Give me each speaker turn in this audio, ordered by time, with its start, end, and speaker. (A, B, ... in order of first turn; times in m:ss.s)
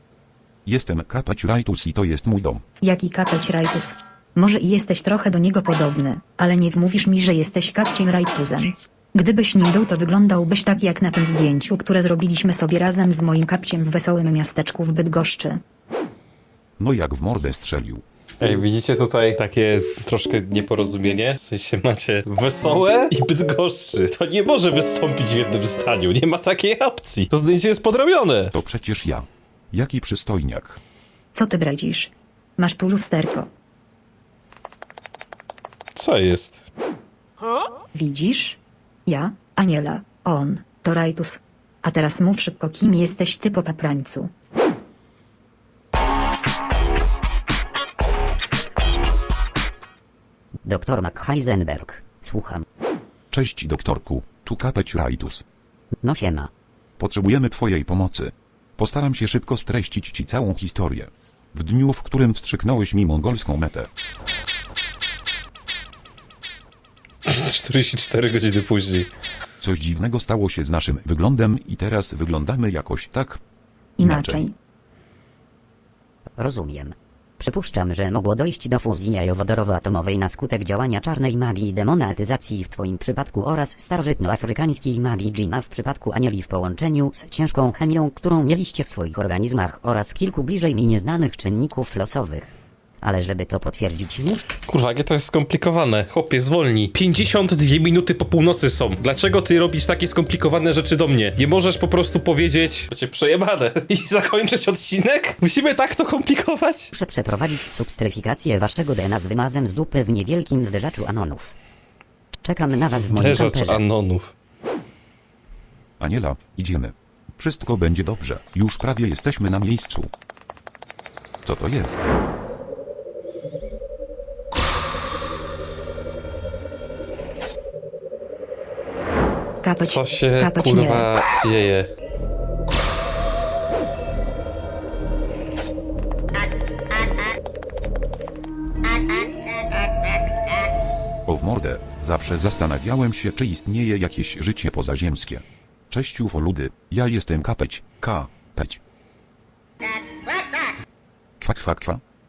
0:00.6-0:02.6 A
0:02.8-0:15.6 B
0:16.8-0:18.0 A
0:18.4-0:28.5 C
0:28.5-0:30.8 A
0:31.3-0:33.5 B
0:36.0-0:36.6 C
0:37.9-0:44.3 B
0:50.6-0:52.6 D
0:53.3-0:55.4 A
0:56.0-0:56.5 D
0:57.0-1:03.9 A
1:07.2-1:09.1 C
1:09.6-1:13.4 A
1:14.0-1:14.5 B
1:14.0-1:14.4 A
1:16.4-1:32.5 D
1:33.0-1:34.4 D
1:34.7-1:46.9 C
1:46.9-1:51.5 D
1:52.4-1:53.8 D
1:52.8-1:54.3 C
1:56.0-2:00.1 A
2:01.4-2:02.1 A
2:09.6-2:11.1 B
2:09.8-2:11.9 C
2:21.2-2:28.8 A
2:31.4-2:32.0 A